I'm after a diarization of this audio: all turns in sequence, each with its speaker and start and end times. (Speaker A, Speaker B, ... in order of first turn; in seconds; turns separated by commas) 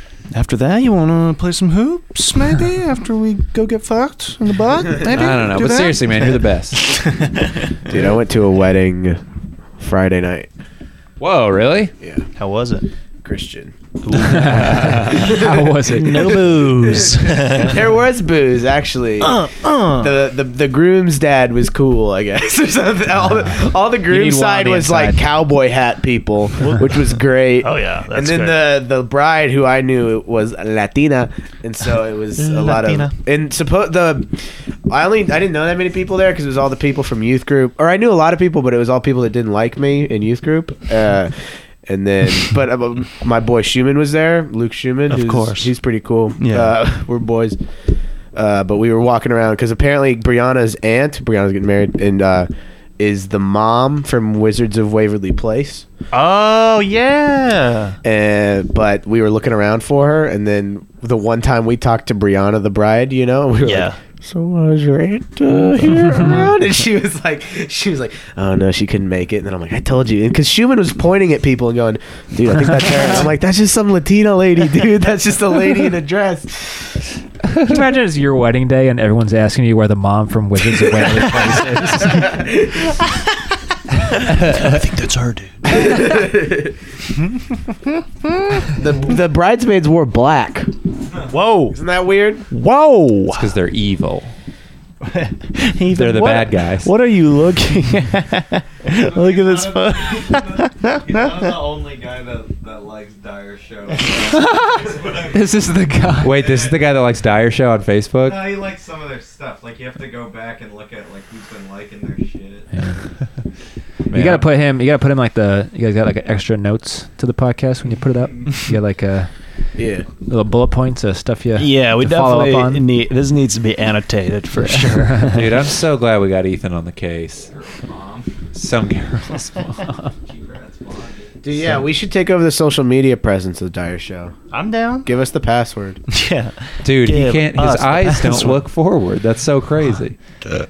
Speaker A: 0.3-7.9, Speaker B: 5.1-7.0, Speaker C: 7.9-9.2, Speaker C: 9.8-10.5, Speaker B: 11.2-11.9, Speaker C: 12.0-12.3, Speaker A: 12.4-12.9, Speaker C: 13.2-13.7, Speaker A: 14.1-17.8, Speaker D: 14.2-16.4, Speaker B: 14.6-15.2, Speaker C: 16.6-34.3, Speaker A: 19.2-20.2, Speaker D: 23.4-25.2, Speaker A: 26.6-28.7, Speaker A: 32.4-33.1, Speaker C: 34.9-47.6, Speaker A: 45.1-45.7, Speaker A: 46.4-46.8, Speaker C: 48.3-55.8, Speaker A: 56.1-58.0, Speaker C: 58.0-77.0, Speaker A: 63.6-64.0, Speaker D: 77.6-82.3, Speaker C: 82.0-82.9, Speaker A: 84.1-86.3, Speaker B: 84.3-84.8, Speaker C: 85.7-86.7, Speaker A: 87.2-88.7, Speaker C: 88.7-90.7, Speaker A: 91.3-91.8, Speaker C: 91.7-92.4, Speaker A: 92.5-93.5, Speaker B: 93.3-94.3, Speaker A: 95.0-101.6, Speaker B: 95.9-96.9, Speaker E: 98.9-106.8, Speaker D: 104.3-106.4, Speaker B: 106.2-108.5, Speaker E: 108.2-112.7, Speaker D: 112.7-113.0, Speaker B: 114.1-114.5, Speaker D: 114.1-119.3, Speaker C: 119.8-120.0, Speaker D: 120.3-122.8, Speaker A: 121.6-125.7, Speaker D: 124.6-125.4, Speaker B: 125.3-127.5, Speaker E: 127.4-128.3, Speaker B: 128.5-130.1, Speaker E: 130.2-131.5, Speaker C: 131.4-134.3, Speaker A: 134.5-135.1, Speaker C: 135.0-136.0, Speaker A: 136.1-138.6, Speaker B: 136.8-140.2